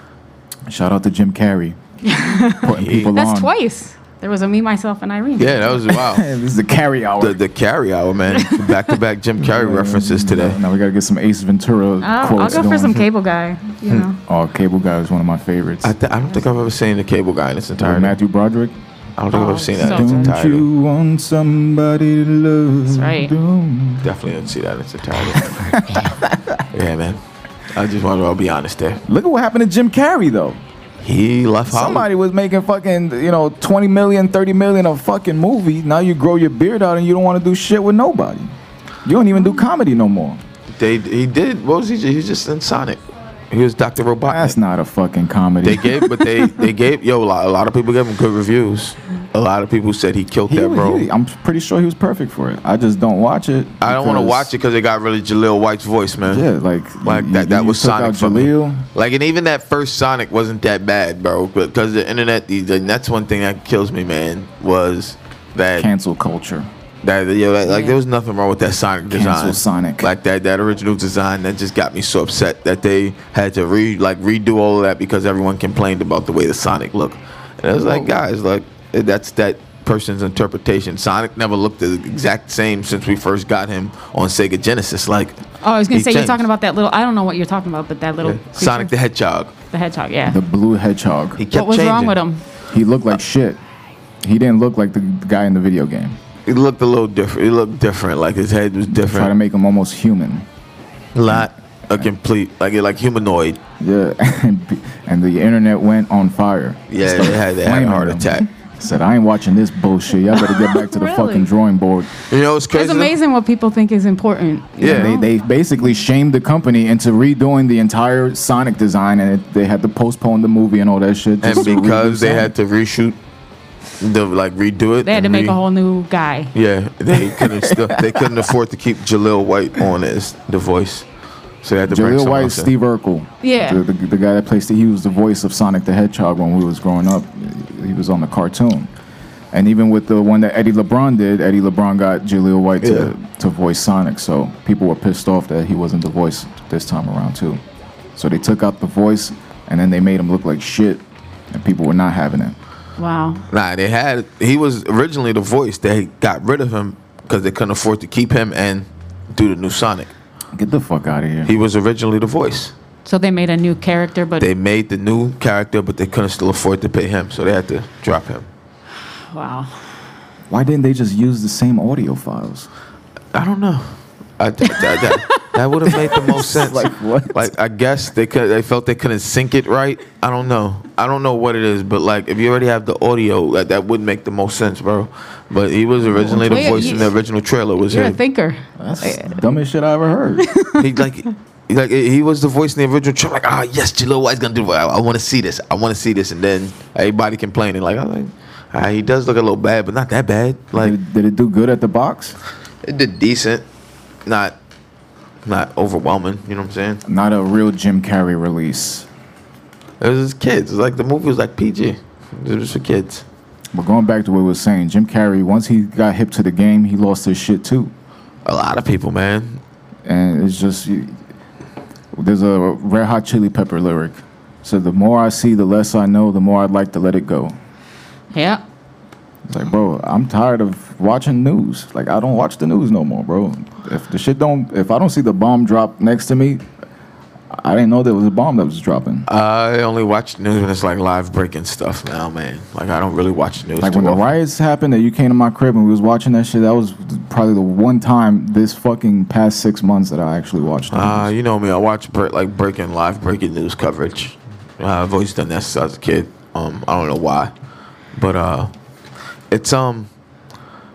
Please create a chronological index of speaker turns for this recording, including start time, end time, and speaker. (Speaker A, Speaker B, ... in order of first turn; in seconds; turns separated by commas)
Speaker A: 0.7-1.8, Speaker B: 2.0-5.9, Speaker A: 2.6-3.5, Speaker C: 2.8-3.2, Speaker C: 5.4-6.3, Speaker A: 5.9-7.4, Speaker C: 7.2-10.6, Speaker B: 8.3-9.0, Speaker A: 9.4-13.0, Speaker B: 12.0-14.2, Speaker A: 14.2-15.9, Speaker C: 15.8-18.2, Speaker A: 17.8-18.8, Speaker C: 19.2-20.7, Speaker B: 19.3-20.4, Speaker A: 19.7-24.2, Speaker B: 22.9-23.3, Speaker C: 24.0-25.8, Speaker A: 25.4-26.6, Speaker C: 26.7-27.2, Speaker C: 27.7-29.0, Speaker A: 29.1-30.6, Speaker C: 31.0-32.1, Speaker A: 31.7-38.5, Speaker A: 39.0-40.4, Speaker C: 40.7-44.6, Speaker A: 44.3-46.1, Speaker C: 45.6-51.1, Speaker A: 50.5-54.5, Speaker C: 53.8-56.5, Speaker A: 56.2-58.8, Speaker C: 57.0-65.9, Speaker A: 65.8-66.7, Speaker C: 67.0-86.5, Speaker B: 67.7-68.0, Speaker A: 69.1-70.1, Speaker B: 85.6-88.9, Speaker C: 88.2-89.5, Speaker B: 89.7-90.4, Speaker A: 90.2-91.4, Speaker C: 91.4-92.2, Speaker B: 91.5-92.5, Speaker A: 92.7-93.6, Speaker A: 94.2-96.2, Speaker C: 96.5-99.3, Speaker A: 98.9-100.5, Speaker C: 101.2-103.6, Speaker A: 101.3-102.1, Speaker A: 103.8-112.1, Speaker C: 106.9-108.5, Speaker B: 110.3-111.5, Speaker C: 112.3-113.1, Speaker B: 112.7-115.3, Speaker C: 114.8-115.2, Speaker A: 114.8-122.5, Speaker C: 121.4-123.2, Speaker C: 124.0-125.6, Speaker B: 125.0-126.5, Speaker C: 126.5-131.1, Speaker A: 127.2-128.2, Speaker C: 131.6-132.7, Speaker A: 131.9-138.9, Speaker B: 133.4-133.8, Speaker A: 139.5-147.6, Speaker C: 142.8-143.1, Speaker A: 148.2-152.6, Speaker B: 153.0-153.5, Speaker C: 153.5-160.1, Speaker A: 160.5-161.5, Speaker C: 161.4-162.7, Speaker B: 163.1-164.5, Speaker C: 164.4-168.5, Speaker B: 169.3-169.8, Speaker A: 170.5-172.7, Speaker C: 173.3-188.2, Speaker B: 174.7-176.2, Speaker A: 176.5-177.5, Speaker A: 186.0-187.1, Speaker B: 186.4-187.2, Speaker B: 187.8-189.4, Speaker A: 188.8-190.5, Speaker B: 190.4-190.9, Speaker C: 190.8-201.0, Speaker A: 200.7-202.4, Speaker C: 202.8-203.7, Speaker C: 204.2-204.6, Speaker C: 205.4-207.0, Speaker A: 207.1-209.1, Speaker C: 210.0-213.2, Speaker A: 213.7-217.9, Speaker C: 218.4-219.6, Speaker A: 220.1-221.2, Speaker A: 222.2-227.5, Speaker B: 228.3-228.6, Speaker A: 229.5-236.7, Speaker A: 237.5-239.3, Speaker C: 239.3-244.3, Speaker A: 243.8-251.3, Speaker C: 250.9-257.5, Speaker C: 258.1-258.7, Speaker C: 259.5-260.1